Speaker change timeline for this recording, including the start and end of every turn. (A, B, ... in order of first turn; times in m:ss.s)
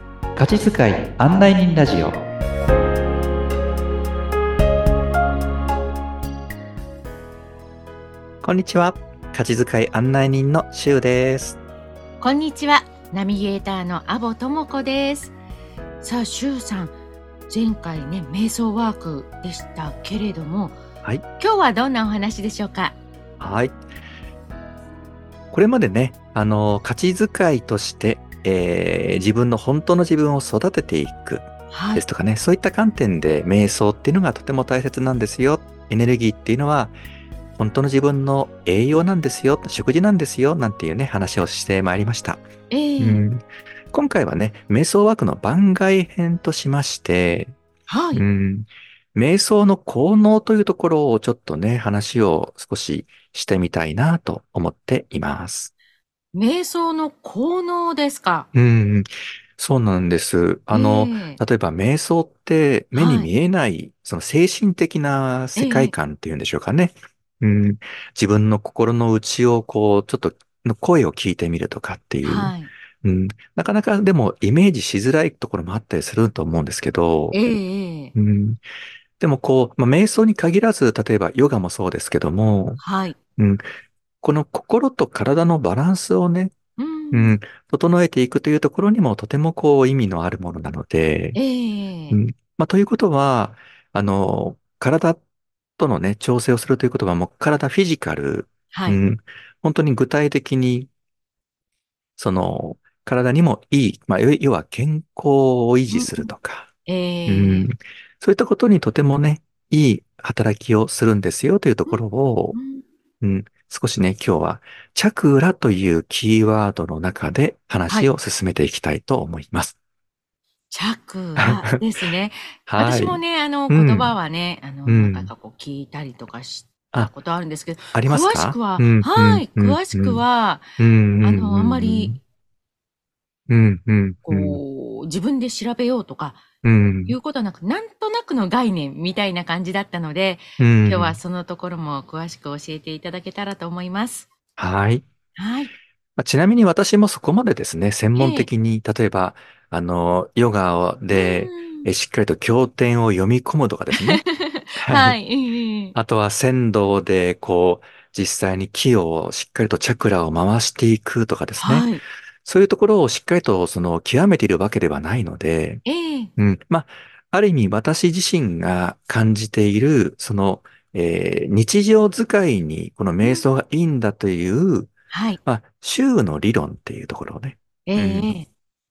0:00.4-0:02.2 A
0:08.4-0:11.6 A
0:12.2-0:15.3 B
0:16.0-0:17.0 B
0:17.5-0:20.8 B
0:21.4-0:23.0 B
0:23.4-0:23.8 A
0:25.5-0:37.0 A
0:31.7-0:32.0 B
0:37.6-0:42.4 A
0:42.7-0:43.2 B
0:43.0-0:47.6 A
0:47.9-0:48.2 B
0:48.1-0:55.7 A
0:56.3-0:58.5 B
0:58.5-1:17.4 A
1:00.7-1:01.4 B
1:02.9-1:03.3 B
1:05.6-1:05.9 B
1:12.2-1:12.7 B
1:17.3-1:18.1 B
1:18.1-1:18.6 A
1:19.2-1:22.8 A
1:22.8-1:23.2 B
1:23.4-1:23.6 A
1:24.2-1:26.5 A
1:26.8-1:27.3 B
1:27.1-1:31.4 A
1:31.3-1:32.2 B
1:32.1-1:35.2 A
1:35.8-1:40.9 A
1:38.7-1:39.0 B
1:42.2-1:46.7 A
1:45.9-1:46.3 B
1:46.9-1:47.7 B
1:47.3-1:52.6 A
1:52.5-1:52.8 B
1:53.2-1:59.8 A
2:00.7-2:12.1 B
2:01.4-2:01.8 A
2:02.7-2:04.1 A
2:04.8-2:05.3 A
2:07.9-2:10.2 A
2:10.8-2:12.2 A
2:13.5-2:14.6 A
2:14.2-2:16.4 B
2:16.6-2:17.2 A
2:17.1-2:24.3 B
2:20.6-2:21.2 A
2:24.6-2:25.0 A
2:25.4-2:25.7 B
2:26.2-2:34.2 A
2:28.1-2:28.5 B
2:31.1-2:31.9 B
2:33.9-2:35.9 B
2:34.8-2:35.2 A
2:35.9-2:41.9 A
2:41.6-2:42.0 B
2:42.4-2:45.8 A
2:45.8-2:46.3 B
2:46.4-2:54.9 A
2:55.1-2:55.4 B
2:55.4-2:58.3 A
2:57.8-2:58.5 B